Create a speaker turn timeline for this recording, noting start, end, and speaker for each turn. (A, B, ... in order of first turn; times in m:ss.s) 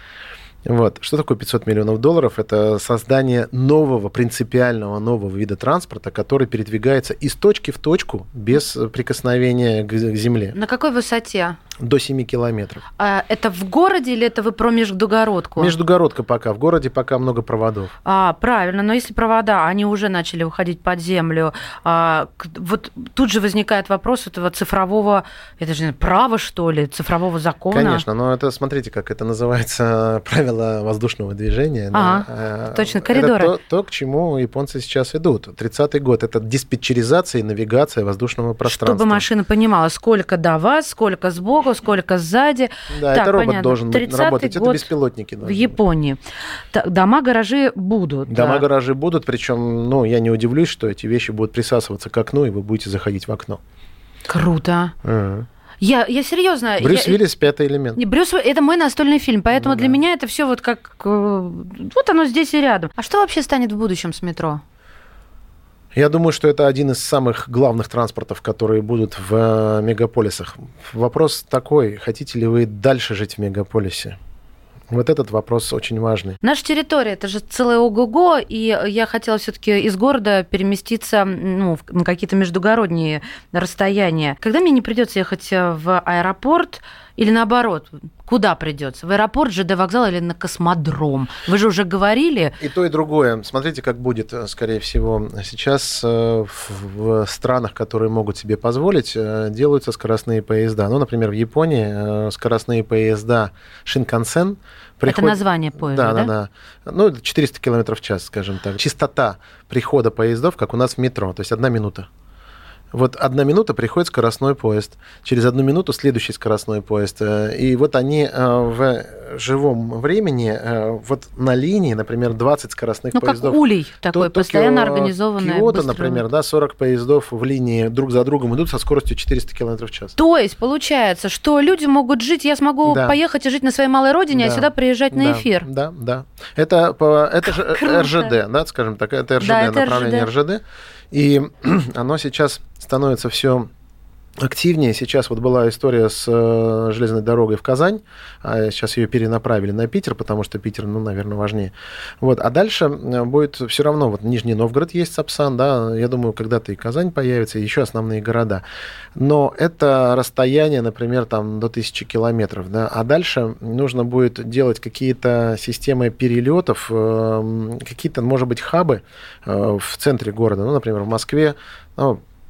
0:00.6-0:10.6 A
0:10.5-0:11.6 B
0:11.8-0:12.8 A
0:13.0-0:15.8 B
0:15.6-0:18.0 A
0:18.0-0:28.0 B
0:27.7-0:39.2 A
0:31.9-0:33.5 B
0:38.6-0:44.9 B
0:42.9-0:45.8 A
0:45.4-0:46.2 B
0:46.7-0:48.6 B
0:48.3-0:53.6 A
0:54.3-0:54.9 B
0:55.0-0:55.5 A
0:55.8-0:57.2 B
0:56.8-0:58.0 A
0:58.0-1:04.6 B
0:59.5-1:00.0 A
1:05.9-1:14.2 A
1:14.9-1:16.4 A
1:16.4-1:32.6 B
1:32.6-1:52.1 A
1:45.1-1:46.3 B
1:52.9-2:10.2 A
2:03.1-2:06.2 B
2:10.2-2:15.7 B
2:12.8-2:13.2 A
2:14.3-2:23.7 A
2:17.5-2:18.3 B
2:19.4-2:20.3 B
2:24.4-2:38.6 A
2:39.2-2:52.2 A